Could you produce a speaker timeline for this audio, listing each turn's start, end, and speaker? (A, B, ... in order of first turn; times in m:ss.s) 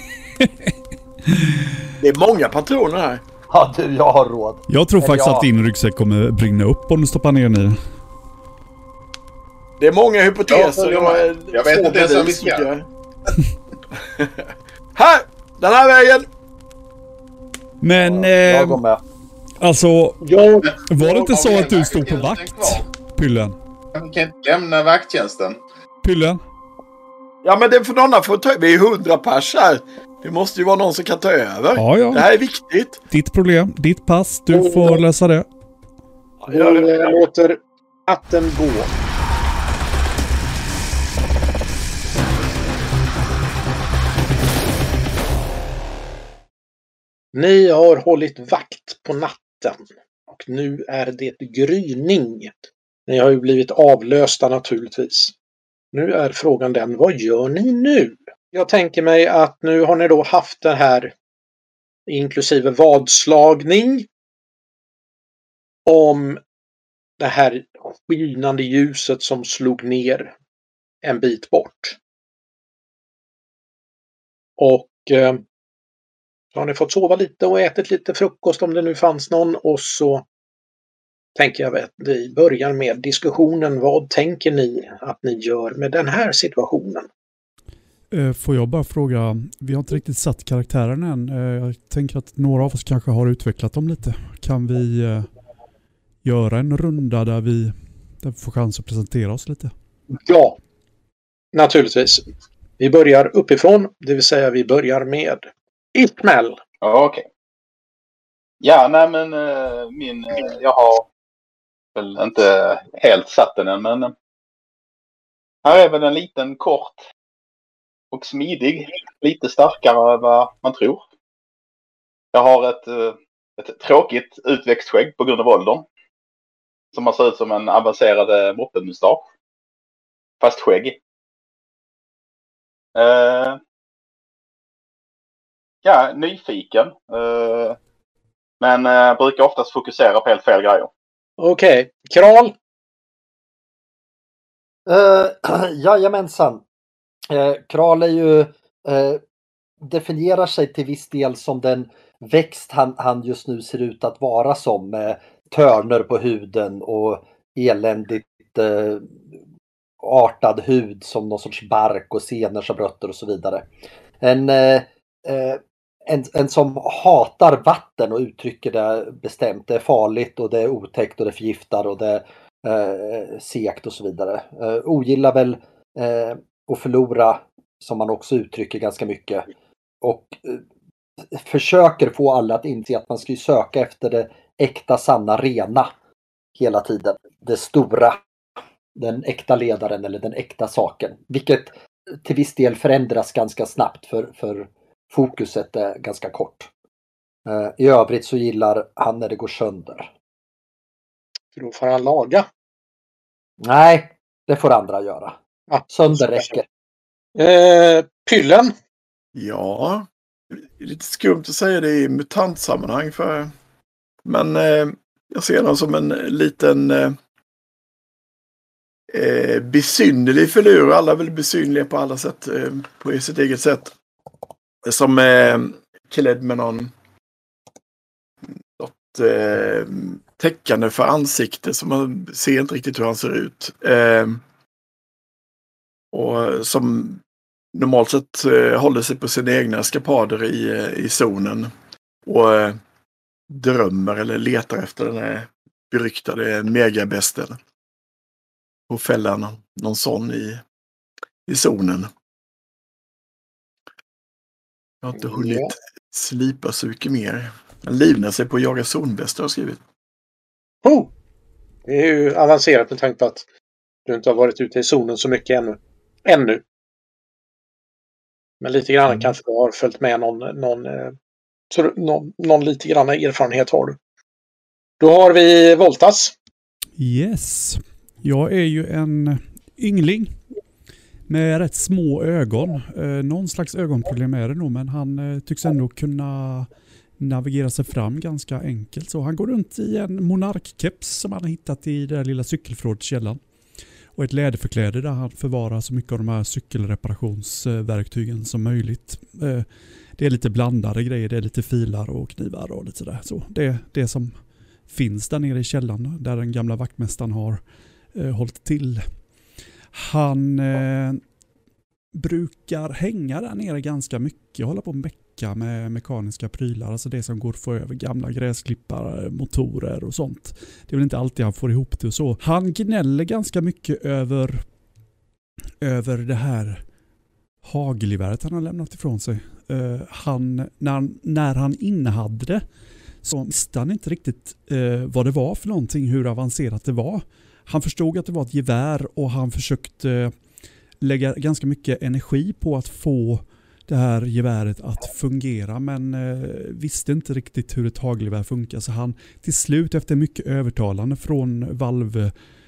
0:00.4-0:00.7 A
0:01.3-0:01.6 A
0:02.0-0:03.2 B
0:03.5-0:05.5 C
0:04.7-0:07.8 A
0:09.8-0:12.8 B
0:10.5-0:12.7 D
0:14.1-0:16.3 B
0:17.8-0:18.8 A
0:18.1-0:19.0 C
0:19.6-0:20.2 A
0:20.2-0:20.7 E
0:20.6-0:22.8 D
0:20.9-0:23.6 A
0:23.9-0:25.6 D
0:26.0-0:26.4 A
0:27.4-0:33.0 B
0:31.8-0:32.2 A
0:33.1-0:35.5 A
0:34.5-0:35.0 E
0:36.4-0:37.0 B
0:36.5-0:38.9 E
0:47.3-0:52.5 E
0:53.1-0:55.3 E
0:55.9-1:01.1 E
1:02.1-1:04.1 E
1:05.8-1:06.4 E
1:07.2-1:10.3 E
1:11.0-1:12.0 E
1:14.6-1:15.4 E
1:16.5-1:20.2 E
1:21.4-1:27.1 E
1:28.1-1:35.3 A
1:36.2-1:39.7 A
1:40.1-1:40.6 E
1:41.5-1:42.2 E
1:42.8-1:46.6 E
1:46.8-1:47.2 D
1:48.6-1:51.1 D
1:51.9-1:54.1 D
1:55.6-1:57.0 D
1:58.1-2:01.0 D
2:02.3-2:05.8 D
2:06.9-2:09.2 D
2:10.4-2:11.0 D
2:12.9-2:13.6 D
2:15.8-2:17.8 D
2:18.6-2:20.9 D
2:21.4-2:22.5 E
2:24.9-2:26.6 C
2:27.3-2:29.2 C
2:29.8-2:39.2 C
2:40.0-2:43.6 C
2:44.2-2:59.5 C
3:00.0-3:00.6 C
3:01.3-3:05.9 C
3:06.6-3:08.2 C
3:09.0-3:16.7 C
3:17.4-3:20.1 C
3:21.5-3:22.5 E
3:23.6-3:25.4 C
3:25.7-3:26.5 E
3:25.9-3:26.6 C
3:27.4-3:28.7 E
3:29.3-3:33.5 B
3:34.2-3:37.2 B
3:39.1-3:43.9 B
3:44.8-3:46.9 B
3:48.8-3:54.4 B
3:56.1-3:57.2 B
3:57.7-4:01.7 B
4:02.2-4:02.8 B
4:03.5-4:07.6 B
4:08.9-4:10.6 B
4:11.4-4:12.1 B
4:15.0-4:19.8 B
4:15.2-4:15.7 E
4:20.8-4:21.1 E
4:21.9-4:23.4 E
4:24.0-4:26.6 E
4:28.6-4:31.1 E
4:31.7-4:34.0 E
4:35.0-4:36.3 E
4:37.0-4:40.4 A
4:41.3-4:53.4 A
4:54.2-4:59.6 A
5:00.2-5:07.6 A
5:08.1-5:09.0 A
5:09.9-5:11.2 A
5:12.1-5:24.6 A
5:25.8-5:26.8 A
5:27.6-5:32.6 A
5:33.2-5:40.3 A
5:41.0-5:52.3 A